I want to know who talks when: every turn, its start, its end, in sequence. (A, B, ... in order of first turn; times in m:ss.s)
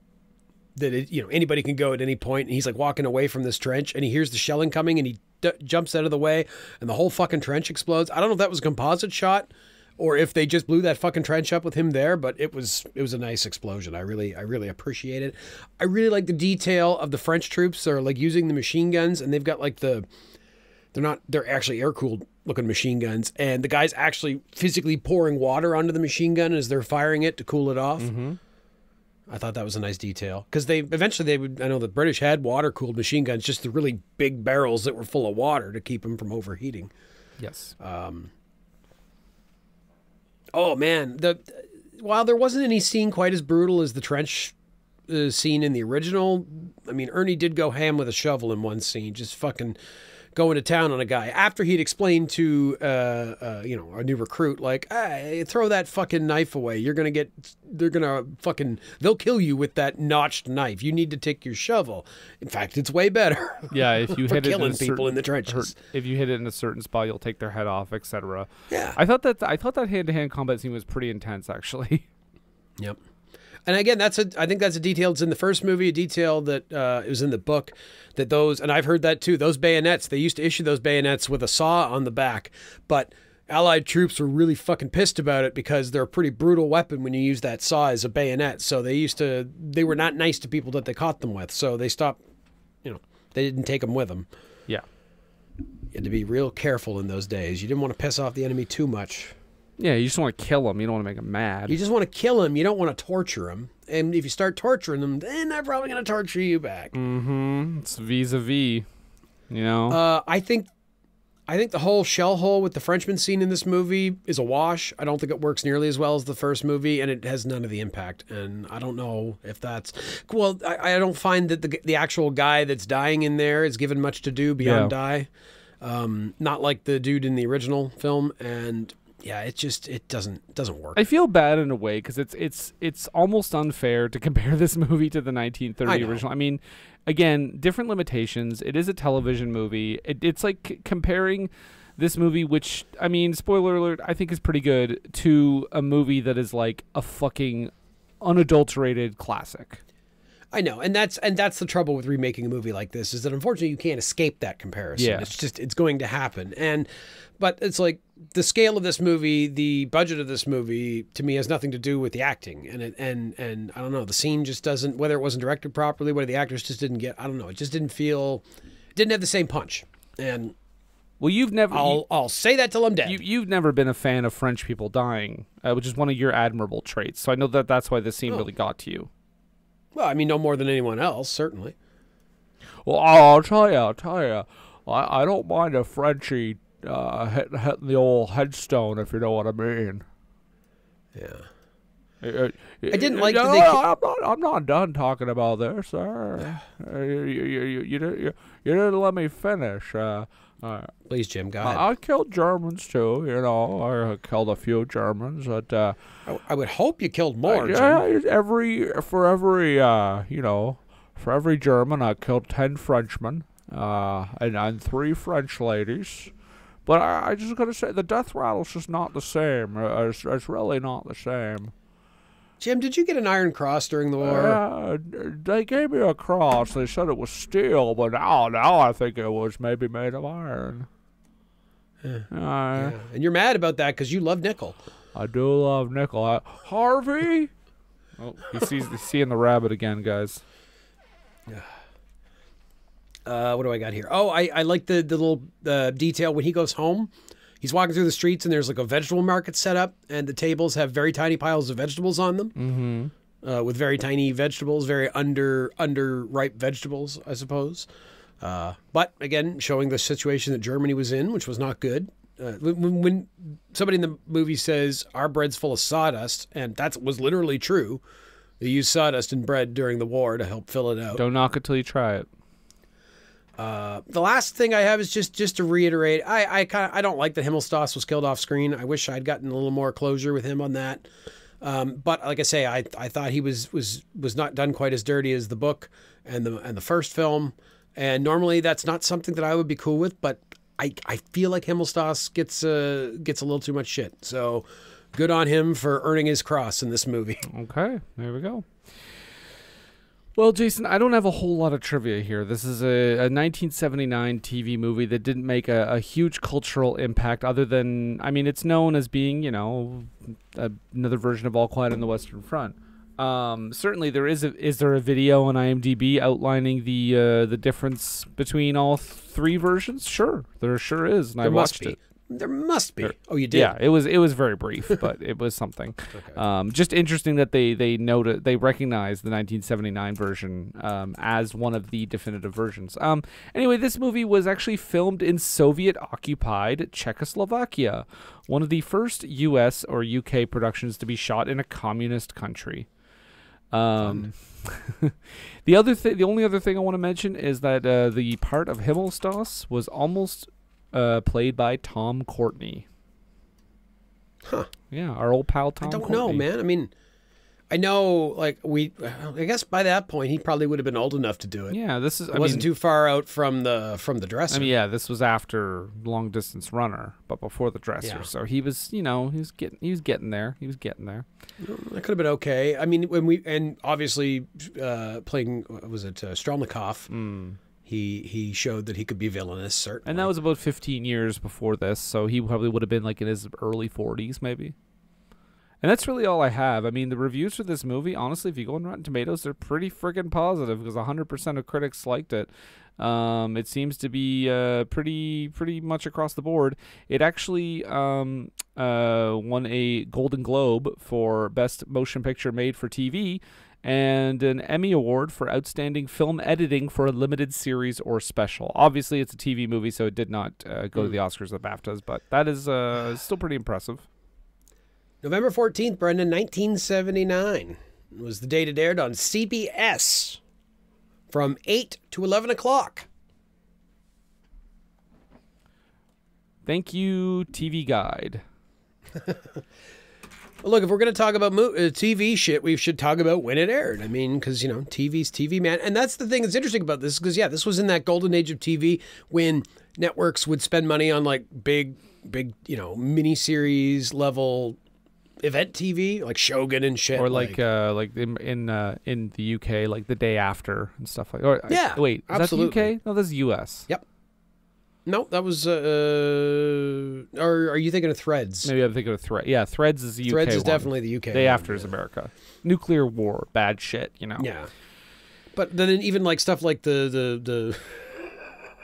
0:00.8-0:20.0 A
0:20.9-0:28.1 A
0:28.0-0:28.4 B
0:29.3-0:36.9 A
0:37.4-0:37.7 B
0:37.8-0:38.3 A
0:40.5-0:44.5 A
0:45.1-0:49.8 A
0:50.3-1:05.7 A
1:03.7-1:12.1 B
1:08.7-1:09.0 A
1:13.6-1:32.2 A
1:32.8-1:34.3 A
1:35.9-1:39.4 A
1:39.8-1:41.8 B
1:41.7-1:46.9 A
1:46.9-1:48.8 B
1:49.5-1:50.0 B
1:49.9-1:50.7 A
1:51.5-2:05.3 A
2:04.6-2:04.9 B
2:05.8-2:11.0 A
2:10.9-2:29.8 B
2:15.8-2:16.2 A
2:30.5-2:50.5 A
2:35.0-2:35.3 B
2:51.2-2:52.0 B
2:51.7-2:53.2 A
2:53.0-2:59.1 B
2:59.9-3:01.7 A
3:02.8-3:10.0 B
3:11.1-3:11.4 A
3:12.2-3:20.9 B
3:12.9-3:13.8 A
3:21.0-3:21.8 A
3:21.6-3:26.0 B
3:26.2-3:28.0 A
3:27.4-3:36.3 B
3:36.8-3:41.7 B
3:42.6-3:44.6 A
3:44.2-3:50.9 B
3:52.0-3:54.8 A
3:52.3-3:53.0 B
3:55.1-3:57.5 B
3:58.2-4:00.4 B
4:03.2-4:12.5 A
4:12.6-4:13.1 B
4:13.4-4:17.9 A
4:18.4-4:28.0 A
4:28.6-4:31.2 A
4:31.2-4:32.3 B
4:33.6-4:41.1 A
4:41.6-4:57.4 A
4:57.5-4:58.8 B
5:00.4-5:22.0 B
5:21.4-5:23.7 A
5:23.0-5:42.9 B
5:26.1-5:26.4 A
5:43.7-5:52.8 B
5:44.0-5:44.3 A
5:54.4-5:54.7 A
5:54.9-5:56.4 B
5:55.8-5:56.9 A
5:57.7-6:01.8 A
6:01.7-6:02.7 B
6:02.3-6:04.7 A
6:04.5-6:11.2 B
6:08.0-6:08.3 A
6:11.6-6:17.1 A
6:17.1-6:17.6 B
6:17.8-6:20.3 A
6:20.0-6:24.7 B
6:25.8-6:54.0 B
6:55.2-7:00.4 A
7:01.3-7:03.1 A
7:06.6-7:08.4 B
7:10.6-7:24.8 A
7:25.4-7:27.6 A
7:27.2-7:33.9 B
7:31.7-7:32.9 A
7:35.0-7:38.7 A
7:38.6-7:44.5 B
7:40.3-7:41.9 A
7:44.4-7:44.7 A
7:45.5-7:48.6 A